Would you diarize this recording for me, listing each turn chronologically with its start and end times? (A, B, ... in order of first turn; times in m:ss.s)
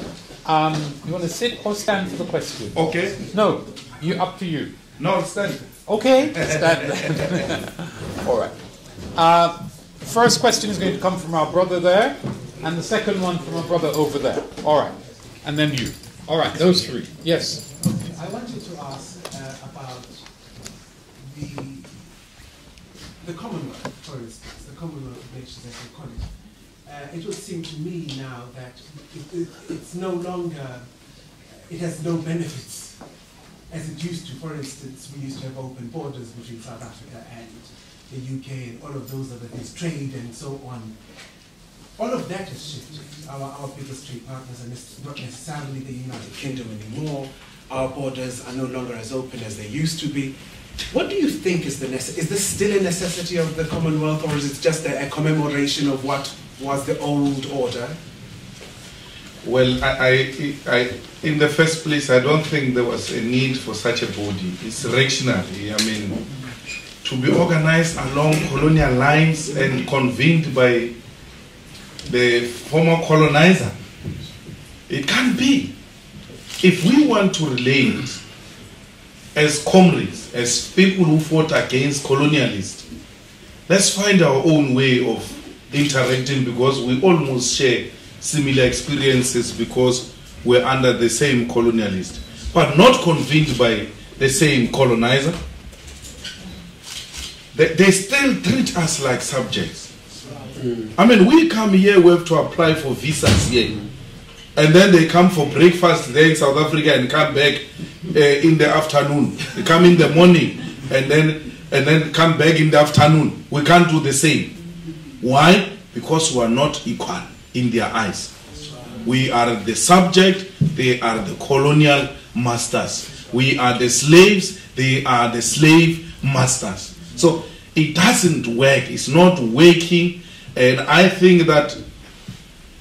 0:00.4-0:04.7 A
0:02.7-0:03.2 B
0:05.0-0:05.6 B
0:05.9-0:07.6 A
0:06.3-0:06.9 B
0:08.2-0:08.5 A
0:09.1-0:17.6 A
0:17.8-0:20.2 C
0:21.2-0:22.0 C
0:23.2-0:26.3 C
0:26.8-0:30.9 C
0:31.7-0:33.0 C
0:33.7-0:41.0 C
0:42.0-0:50.4 C
0:50.9-0:58.0 C
0:59.4-1:06.2 B
1:07.0-1:10.9 B
1:12.0-1:13.8 B
1:14.9-1:15.7 B
1:16.6-1:18.2 B
1:19.3-1:22.8 B
1:23.7-1:35.4 B
1:37.5-1:39.9 B
1:40.9-1:43.8 B
1:44.6-1:54.5 B
1:55.2-1:58.3 B
1:59.0-2:11.8 B